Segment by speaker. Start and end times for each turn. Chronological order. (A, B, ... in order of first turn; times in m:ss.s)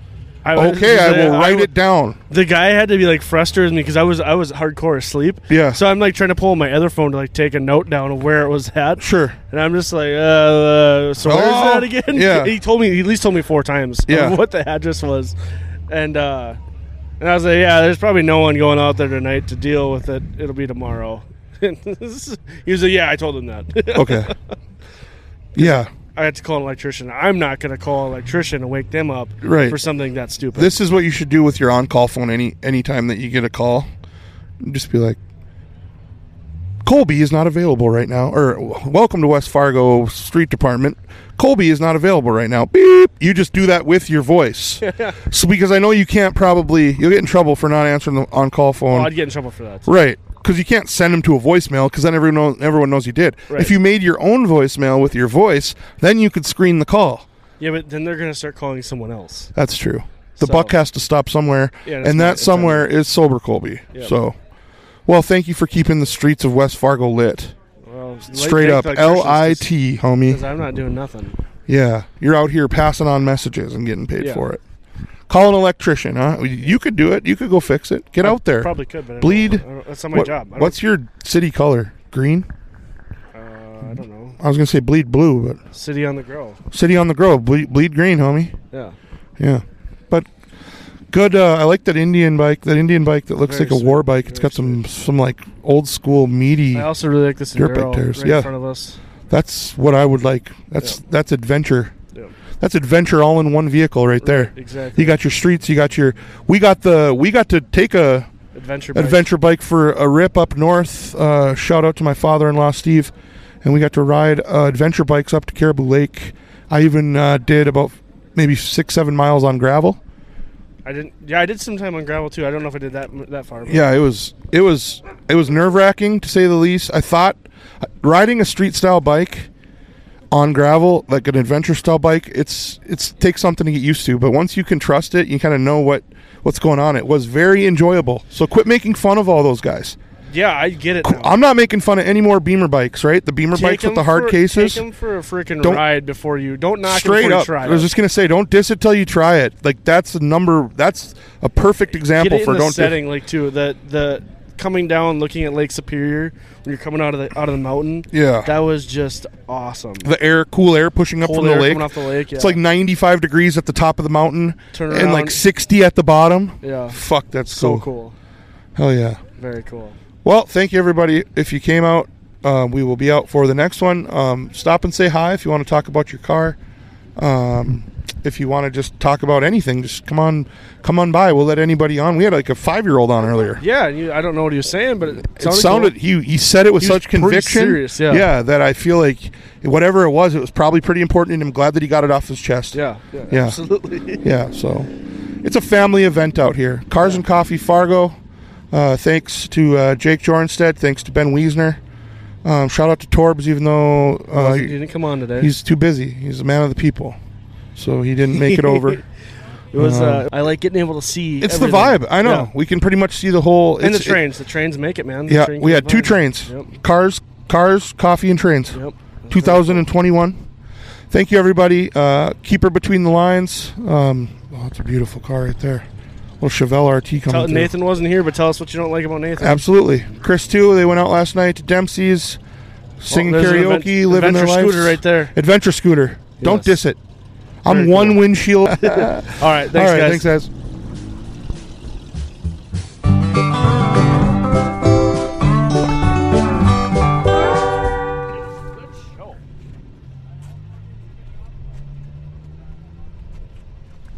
0:00.4-0:01.7 A
0:00.6-0:02.2 B
0:02.3-0:15.4 A
0:05.5-0:05.8 B
0:09.0-0:09.4 B
0:11.2-0:12.5 B
0:14.1-0:14.4 B
0:15.9-0:16.6 A
0:17.2-0:24.4 A
0:23.9-0:24.3 B
0:25.5-0:30.8 A
0:25.6-0:25.9 B
0:29.4-0:29.8 B
0:30.6-0:33.9 B
0:34.6-0:35.2 B
0:36.8-0:49.1 B
0:44.8-0:45.2 A
0:48.9-0:49.9 A
0:49.9-0:57.2 B
0:57.6-0:59.5 A
0:59.5-1:04.4 B
1:00.4-1:00.8 A
1:01.8-1:02.9 A
1:05.1-1:07.6 B
1:07.8-1:09.7 A
1:08.3-1:10.4 B
1:10.3-1:11.4 A
1:11.7-1:14.6 B
1:14.2-1:14.5 A
1:15.3-1:22.5 B
1:18.2-1:20.8 A
1:23.3-1:24.4 A
1:24.4-1:25.6 B
1:25.7-1:26.6 A
1:26.7-1:28.6 B
1:28.7-1:29.0 A
1:29.4-1:30.3 B
1:31.1-1:36.9 B
1:33.4-1:34.8 A
1:36.7-1:39.0 A
1:37.6-1:38.5 B
1:39.3-1:41.9 B
1:42.6-1:48.3 B
1:44.2-1:45.2 A
1:48.5-1:49.3 A
1:48.9-1:53.1 B
1:53.6-2:00.0 B
2:00.8-2:03.9 A
2:03.7-2:09.5 B
2:10.3-2:20.0 B
2:20.3-2:21.4 A
2:21.0-2:24.9 B
2:23.5-2:27.9 A
2:26.8-2:33.0 B
2:32.2-2:40.1 A
2:38.1-2:38.5 B
2:40.0-2:47.9 B
2:41.2-2:42.6 A
2:44.7-2:45.4 A
2:46.6-2:48.2 A
2:48.8-2:49.2 B
2:49.4-2:50.0 A
2:50.2-2:56.6 B
2:57.2-3:03.6 B
3:03.6-3:06.0 A
3:05.3-3:12.8 B
3:06.8-3:08.3 A
3:12.7-3:14.2 A
3:13.3-3:13.6 B
3:14.1-3:14.9 B
3:15.4-3:18.2 B
3:18.7-3:21.8 B
3:22.4-3:24.8 B
3:24.3-3:25.6 A
3:25.4-3:27.2 B
3:27.8-3:29.0 B
3:28.4-3:29.0 A
3:29.7-3:32.5 A
3:29.8-3:30.3 B
3:31.4-3:34.2 B
3:33.8-3:36.7 A
3:35.3-3:38.8 B
3:38.7-3:39.9 A
3:39.3-3:40.5 B
3:41.1-3:45.9 B
3:46.4-3:47.7 B
3:47.3-3:49.7 A
3:49.4-3:52.4 B
3:53.0-3:57.0 B
3:53.1-3:55.4 A
3:56.4-3:56.8 A
3:57.6-4:00.5 B
3:57.7-3:58.3 A
3:58.8-4:00.3 A
4:08.6-4:09.4 A